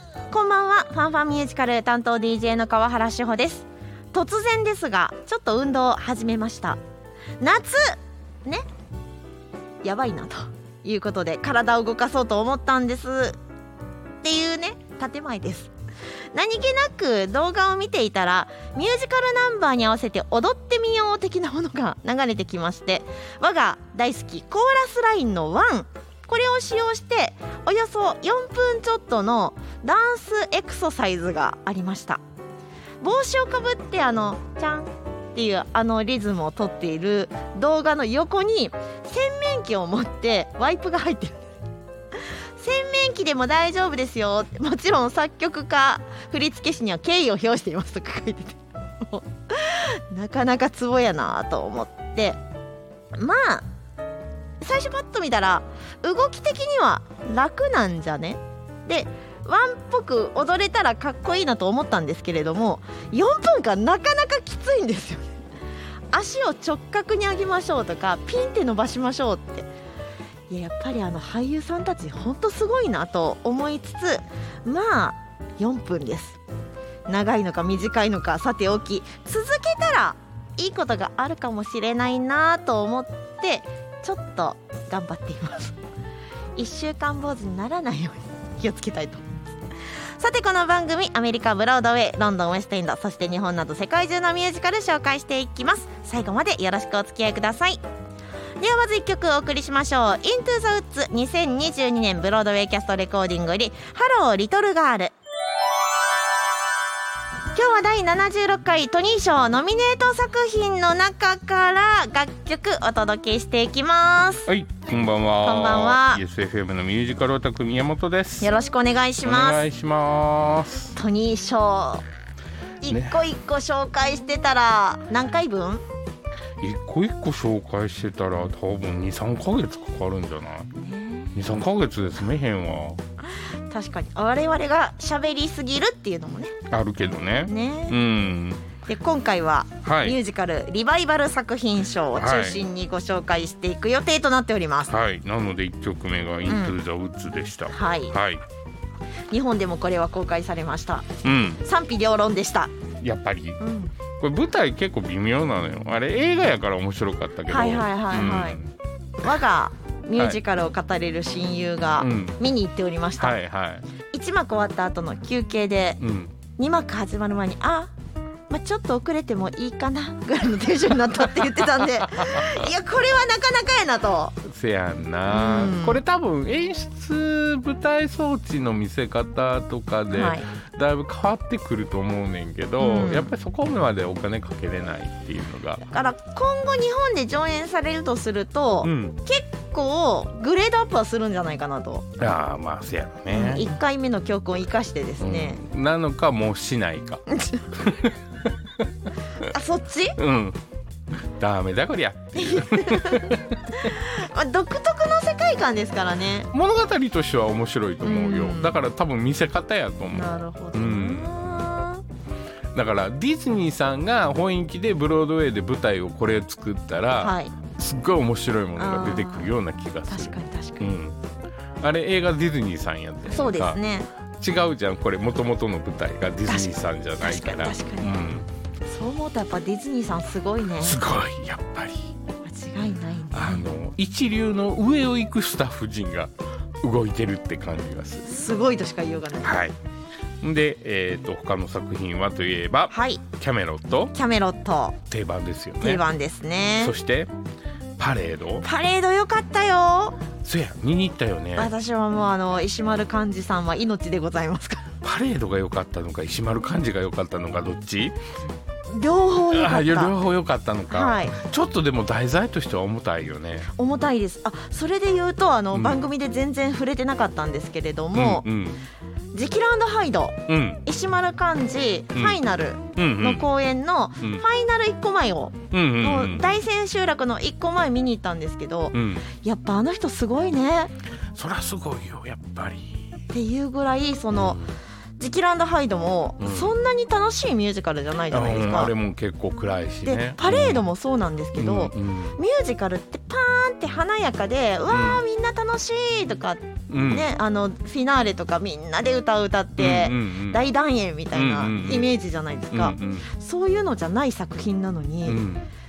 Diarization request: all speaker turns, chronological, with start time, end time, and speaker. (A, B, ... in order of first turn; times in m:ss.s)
0:00.3-0:06.8 A
0:07.4-0:08.6 A
0:09.8-0:13.4 A
0:14.2-0:15.7 A
0:16.3-0:32.2 A
0:33.0-0:41.5 A
0:42.6-0:52.4 A
0:53.1-0:53.7 A
0:54.6-1:05.3 A
1:06.1-1:09.7 A
1:10.5-1:16.4 A
1:17.1-1:25.8 A
1:26.6-1:29.5 A
1:30.2-1:37.8 A
1:38.6-1:45.1 A
1:47.5-1:54.5 A
1:54.5-1:58.5 B
1:55.3-1:56.2 A
1:58.4-1:59.6 A
1:59.2-2:01.0 B
2:00.9-2:02.0 A
2:02.8-2:05.8 A
2:02.9-2:03.2 B
2:06.6-2:10.7 B
2:10.8-2:11.3 A
2:11.3-2:13.0 B
2:13.7-2:16.6 A
2:16.7-2:18.6 B
2:17.4-2:18.0 A
2:18.8-2:24.9 A
2:19.8-2:20.2 B
2:22.2-2:22.6 B
2:24.9-2:28.4 B
2:26.5-2:26.8 A
2:27.7-2:28.1 A
2:29.3-2:32.7 A
2:31.2-2:31.6 B
2:33.0-2:33.6 B
2:33.6-2:33.9 A
2:34.2-2:38.7 B
2:37.5-2:38.6 A
2:39.2-2:43.4 A
2:42.0-2:42.4 B
2:43.2-2:43.8 B
2:44.1-2:46.0 A
2:46.0-2:46.3 B
2:46.6-2:47.9 A
2:48.5-2:54.4 A
2:54.4-3:05.8 B
2:55.3-2:56.0 A
3:00.1-3:00.5 A
3:02.8-3:03.3 A
3:05.8-3:12.1 A
3:08.8-3:09.2 B
3:12.2-3:13.7 B
3:13.3-3:15.6 A
3:15.2-3:18.1 B
3:17.3-3:17.6 A
3:19.4-3:20.2 A
3:20.2-3:20.6 B
3:21.4-3:23.8 B
3:22.4-3:26.5 A
3:26.5-3:31.4 B
3:28.0-3:28.8 A
3:30.1-3:32.0 A
3:32.7-3:41.2 B
3:37.2-3:37.6 A
3:38.8-3:39.5 A
3:40.1-3:40.9 A
3:41.8-3:43.8 B
3:43.3-3:44.1 A
3:44.4-3:48.4 B
3:46.5-3:48.3 A
3:48.8-3:51.0 A
3:50.8-3:52.1 B
3:52.4-3:53.7 A
3:53.3-3:58.3 B
3:58.2-3:59.6 A
3:59.4-3:59.7 B
4:00.4-4:04.1 B
4:02.9-4:03.2 A
4:04.1-4:05.0 A
4:05.1-4:06.0 B
4:05.8-4:06.9 A
4:06.8-4:07.3 B
4:08.0-4:08.6 B
4:08.6-4:10.2 A
4:10.4-4:11.7 B
4:11.6-4:14.8 A
4:15.0-4:18.2 B
4:18.9-4:20.2 A
4:19.5-4:23.7 B
4:20.9-4:21.4 A
4:23.7-4:28.4 A
4:25.7-4:26.0 B
4:28.1-4:28.8 B
4:29.3-4:40.9 A
4:30.5-4:30.8 B
4:32.1-4:32.4 B
4:33.0-4:33.4 B
4:35.7-4:36.4 B
4:38.9-4:39.3 B
4:41.3-4:43.1 B
4:43.3-4:44.6 A
4:44.3-4:44.7 B
4:45.2-4:48.9 A
4:46.4-4:46.7 B
4:48.3-4:50.9 B
4:50.0-5:05.4 A
4:51.5-4:52.4 B
4:54.9-4:55.2 B
4:56.9-4:57.3 B
4:59.8-5:00.6 B
5:01.3-5:02.1 B
5:02.7-5:03.3 B
5:05.2-5:05.7 B